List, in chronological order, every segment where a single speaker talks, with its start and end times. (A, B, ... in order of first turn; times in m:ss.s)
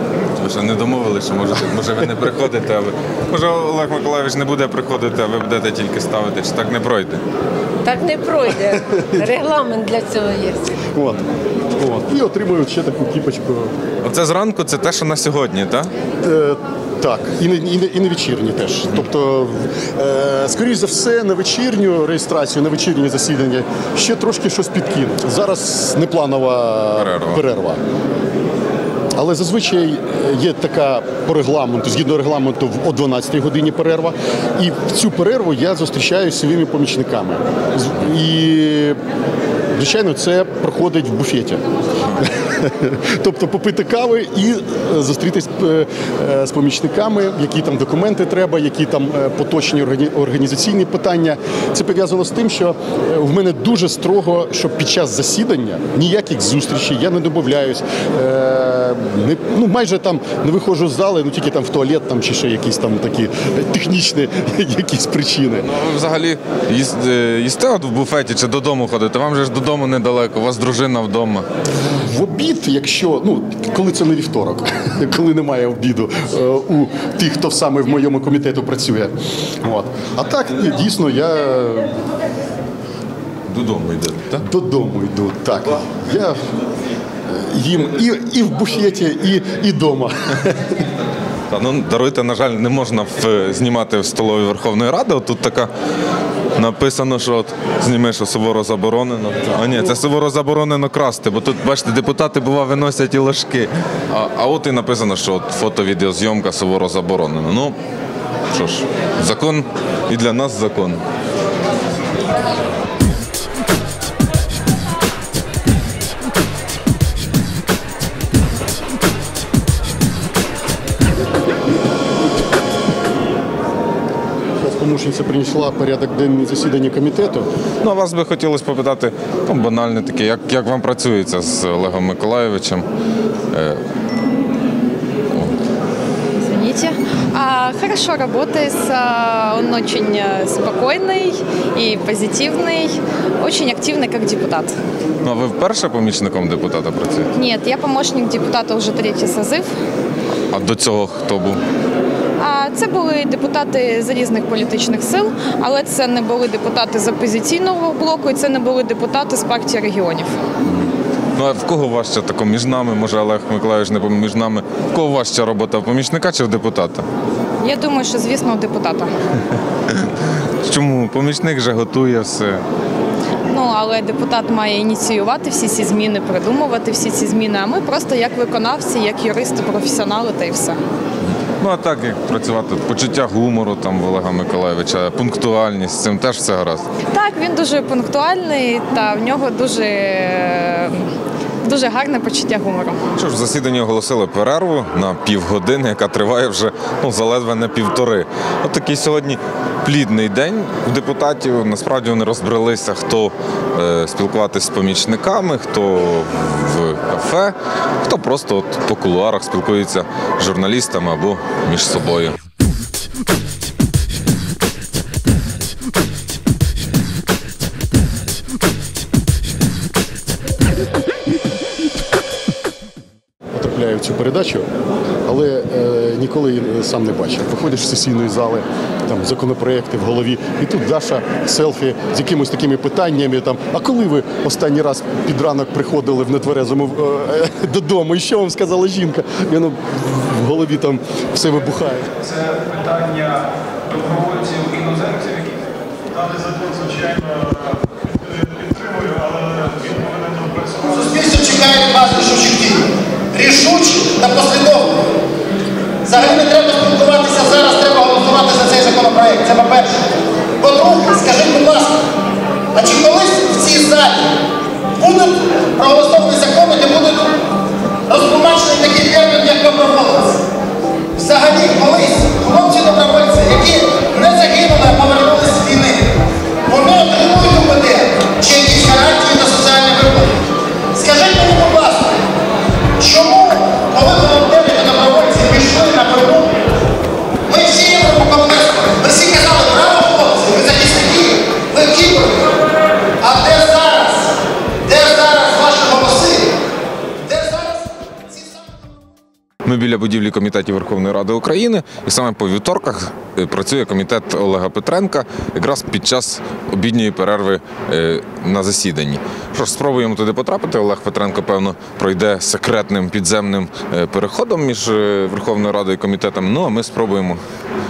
0:00.4-0:07.2 A
0:07.8-0:10.7 B
0:08.6-0:09.3 C
0:10.9-0:13.8 C
0:14.0-0:15.9 A
0:16.2-0:27.8 C
0:27.0-0:27.4 A
0:29.2-0:39.0 C
0:39.7-0:41.6 C
0:42.2-1:05.7 C
1:05.6-1:11.5 A
1:11.8-1:22.0 C
1:23.5-1:24.4 A
1:24.3-1:26.4 C
1:27.2-1:30.8 C
1:31.5-1:35.7 A
1:36.5-1:47.8 A
1:48.5-1:51.0 A
2:04.6-2:07.5 C
2:07.8-2:12.9 A
2:13.5-2:13.8 A
2:15.3-2:15.6 A
2:16.4-2:24.8 D
2:25.2-2:27.3 A
2:27.3-2:29.7 D
2:30.5-2:31.6 A
2:32.4-2:40.3 D
2:40.6-2:47.0 A
2:47.6-2:49.1 D
2:49.9-2:52.6 A
2:53.5-3:00.8 D
3:01.6-3:06.9 A
3:07.1-3:11.1 D
3:11.6-3:13.0 D
3:13.1-3:32.4 A
3:43.5-3:44.7 C
3:45.2-4:02.2 C
4:02.4-4:03.4 E
4:04.0-4:05.5 E
4:06.3-4:07.1 E
4:09.4-4:10.6 E
4:10.8-4:15.2 F
4:16.0-4:20.0 F
4:20.6-4:22.0 F
4:22.7-4:24.4 F
4:25.0-4:27.3 F
4:28.1-4:30.4 F
4:31.2-4:36.2 F
4:36.7-4:40.4 F
4:40.9-4:42.2 F
4:43.0-4:46.5 F
4:47.5-4:52.6 F
4:53.2-4:56.6 F
4:57.2-4:58.8 F
4:59.6-5:17.4 A